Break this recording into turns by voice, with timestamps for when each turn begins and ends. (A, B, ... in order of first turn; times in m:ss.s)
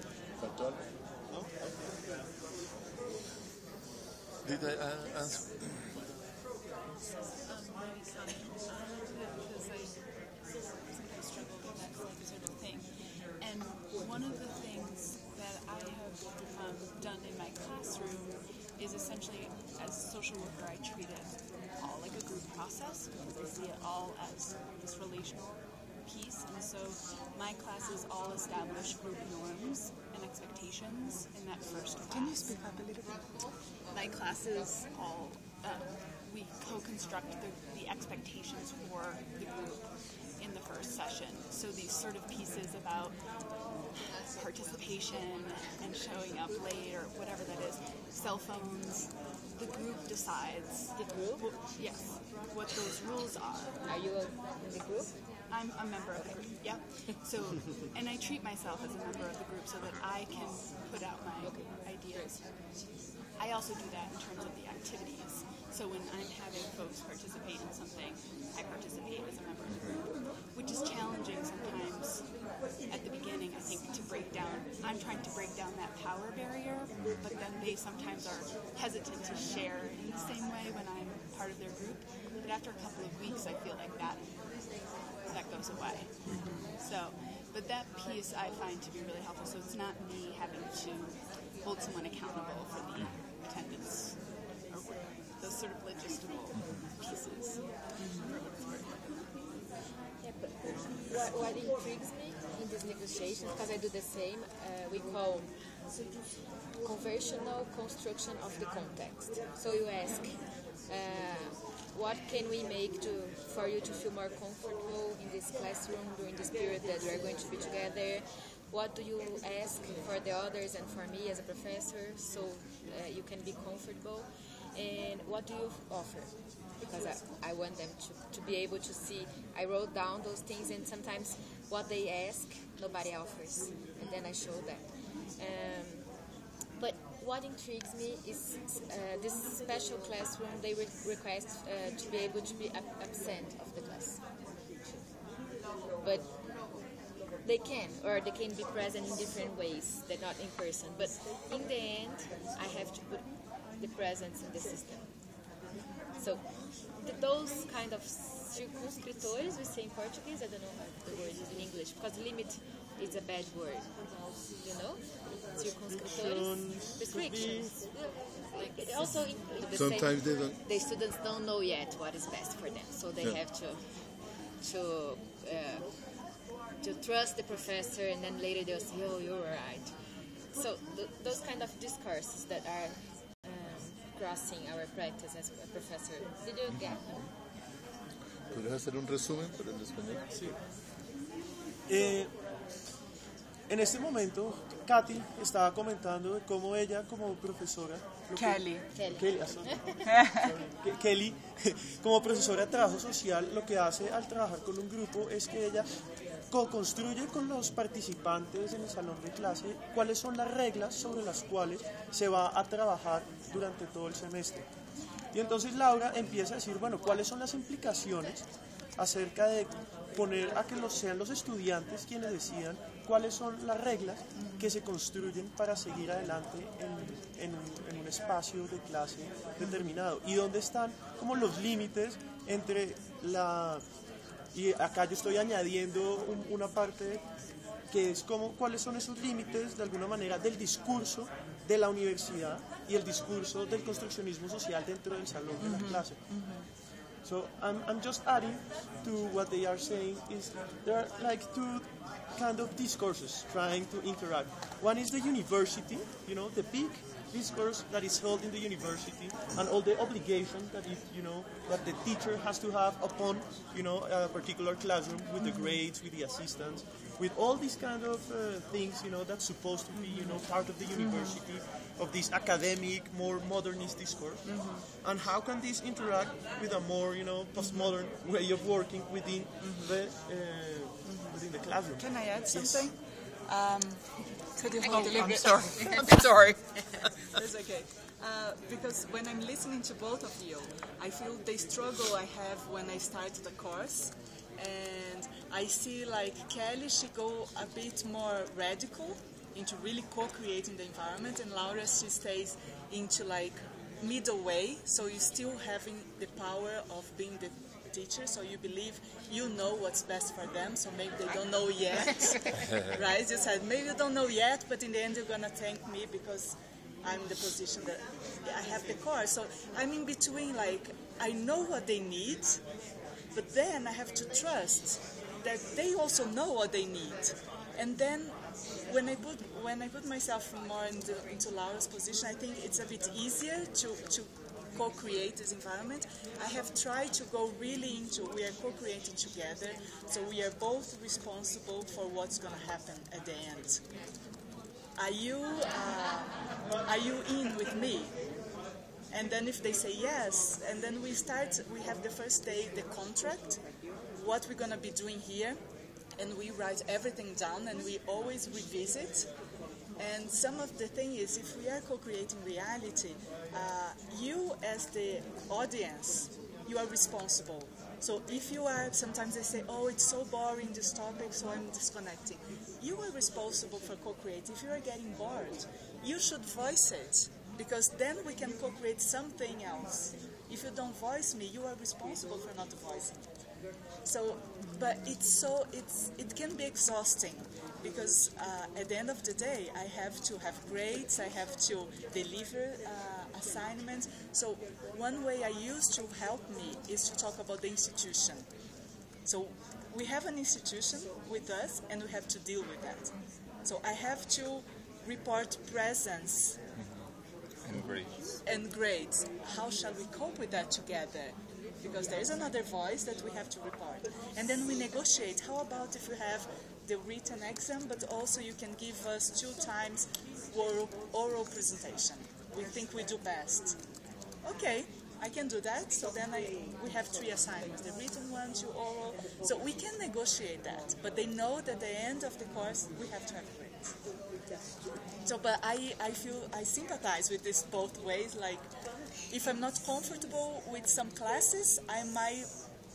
0:00.4-0:00.8 A
0:04.4-0:05.9 A
0:07.4-0:32.4 B
0:32.1-0:33.2 C
0:33.9-0:43.2 B
0:43.9-0:53.8 B
0:51.0-0:51.5 D
0:53.8-0:55.2 D
0:55.5-1:02.8 B
0:56.2-0:57.2 D
1:01.4-1:02.4 D
1:03.3-1:39.2 B
1:09.6-1:10.0 E
1:16.9-1:17.3 E
1:26.3-1:26.6 E
1:26.3-1:26.8 C
1:36.6-1:36.8 E
1:38.0-1:38.3 C
1:40.2-1:45.6 D
1:46.8-2:16.2 D
2:16.8-2:25.1 D
2:26.0-2:26.3 D
2:27.4-2:35.1 D
2:36.2-2:56.0 D
2:45.5-2:47.8 F
2:49.7-2:50.6 A
2:56.8-2:59.9 D
3:00.5-3:07.2 D
3:08.5-3:10.2 A
3:10.3-3:10.6 F
3:11.9-3:12.3 F
3:13.7-3:25.9 F
3:18.4-3:18.9 C
3:18.9-3:20.1 D
3:20.1-3:20.4 C
3:26.5-3:34.7 F
3:35.3-3:53.8 F
3:44.4-3:44.7 C
3:49.6-3:49.9 C
3:54.5-3:57.2 F
3:57.9-4:06.4 F
4:05.6-4:06.7 C
4:07.2-4:42.9 F
4:25.4-4:25.8 C
4:30.0-4:30.4 C
4:31.0-4:31.4 C
4:34.4-4:34.9 C
4:37.6-4:37.9 C
4:39.6-4:39.9 C
4:41.0-4:41.4 C
4:42.0-4:46.3 C
4:44.8-4:47.4 G
4:47.4-5:22.6 C
5:23.4-5:43.8 C
5:45.0-5:48.2 C
5:49.1-5:53.6 C
5:54.1-5:55.6 C
5:56.2-5:59.3 C
6:00.0-6:23.1 C
6:24.0-6:38.4 C
6:39.3-6:43.1 C
6:43.6-6:46.6 C
6:47.6-6:48.4 E
6:48.4-7:03.8 C
7:04.4-7:13.9 C
7:15.3-7:18.6 C
7:19.3-7:22.5 C